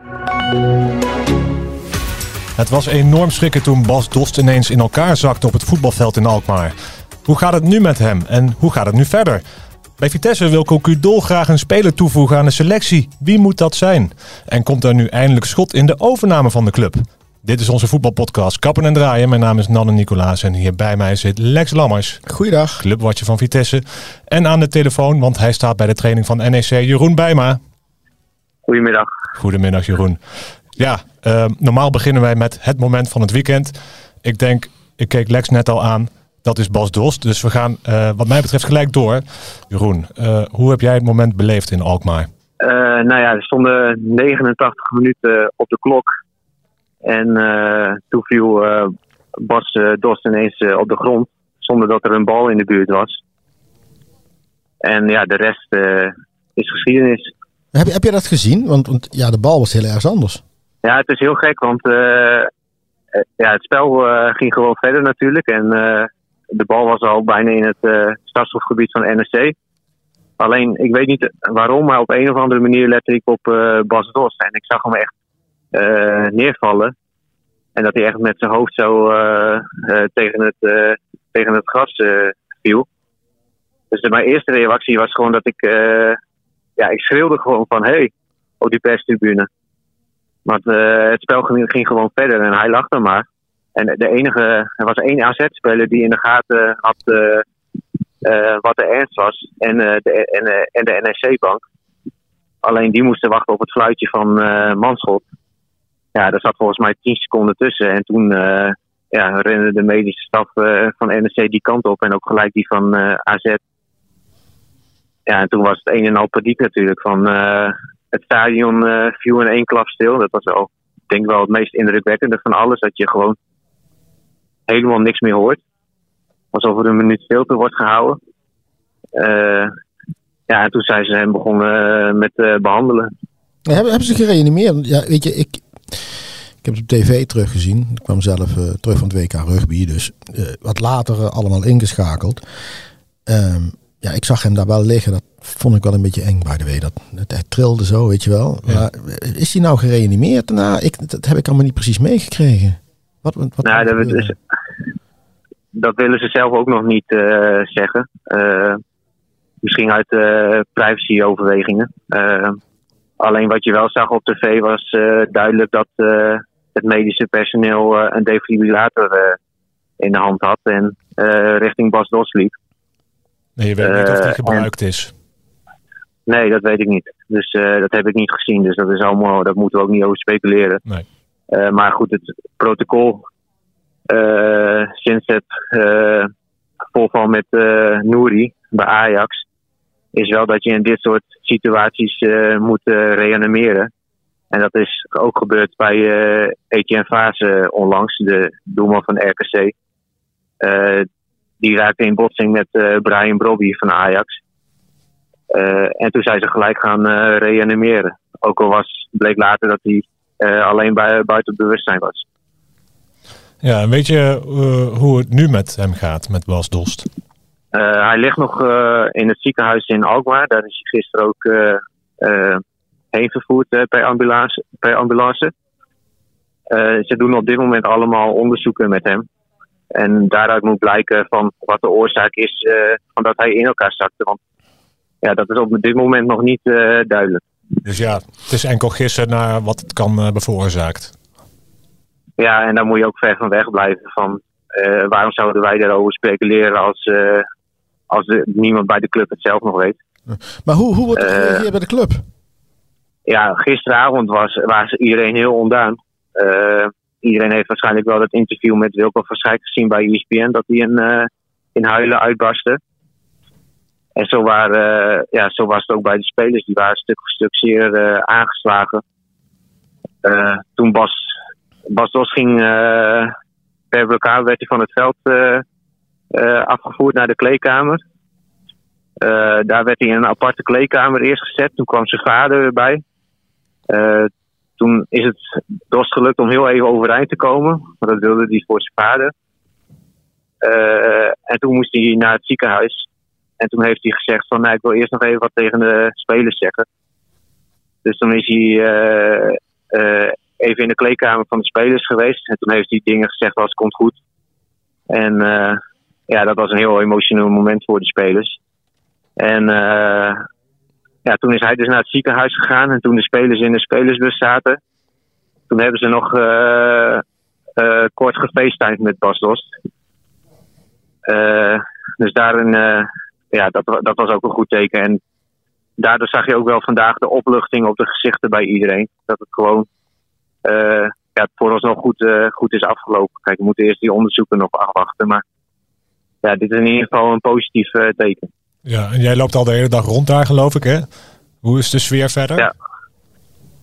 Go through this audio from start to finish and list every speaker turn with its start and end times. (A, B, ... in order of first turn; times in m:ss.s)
0:02.6-0:09.4 A
0:10.0-0:22.2 A
0:22.3-0:22.8 B
0:22.8-0:27.6 A
0:28.7-0:29.1 C
0:29.4-0:30.2 A
0:30.7-0:42.3 A
0:42.6-0:46.1 C
0:47.0-0:53.2 C
0:54.8-0:57.3 C
0:57.7-1:00.4 B
1:00.8-1:02.5 C
1:03.2-1:09.6 C
1:10.4-1:15.1 C
1:15.7-1:16.9 C
1:17.8-1:22.9 C
1:23.9-1:26.2 C
1:26.8-1:29.5 C
1:30.5-1:37.4 C
1:38.2-1:41.6 C
1:42.6-1:45.2 C
1:46.2-1:53.6 C
1:55.3-2:03.4 C
2:04.7-2:05.6 C
2:06.5-2:08.2 C
2:09.2-2:09.7 C
2:10.5-2:13.1 C
2:13.7-2:22.4 B
2:23.3-2:34.3 B
2:33.6-2:34.4 C
2:35.7-2:38.8 C
2:39.6-2:42.6 C
2:43.2-2:49.4 C
2:50.0-2:52.6 C
2:53.6-2:55.1 A
2:53.8-2:54.7 C
2:56.3-3:00.8 C
3:01.5-3:03.2 C
3:04.1-3:06.3 C
3:06.9-3:09.4 C
3:10.1-3:13.9 C
3:14.5-3:19.7 C
3:20.6-3:21.1 C
3:21.6-3:24.3 C
3:25.5-3:32.2 C
3:33.6-3:37.1 A
3:37.7-3:45.5 C
3:46.7-3:49.3 C
3:49.9-3:54.4 C
3:55.2-3:57.4 C
3:57.8-4:01.1 A
4:02.4-4:07.5 C
4:08.1-4:10.0 C
4:10.3-4:12.2 B
4:11.2-4:11.6 C
4:13.3-4:22.8 C
4:24.2-4:29.0 C
4:30.2-4:31.3 C
4:31.9-4:33.3 C
4:33.9-4:35.6 C
4:36.3-4:38.0 C
4:39.2-4:43.0 C
4:43.9-4:49.3 C
4:50.6-4:53.1 C
4:53.6-4:56.9 C
4:58.0-5:04.2 C
5:05.1-5:08.6 C
5:09.4-5:10.4 C
5:11.2-5:14.8 C
5:15.7-5:17.2 C
5:17.8-5:19.7 C
5:21.3-5:25.2 C
5:26.0-5:29.9 C
5:30.6-5:35.4 C
5:36.4-5:38.5 C
5:38.9-5:41.1 A
5:41.6-5:42.7 A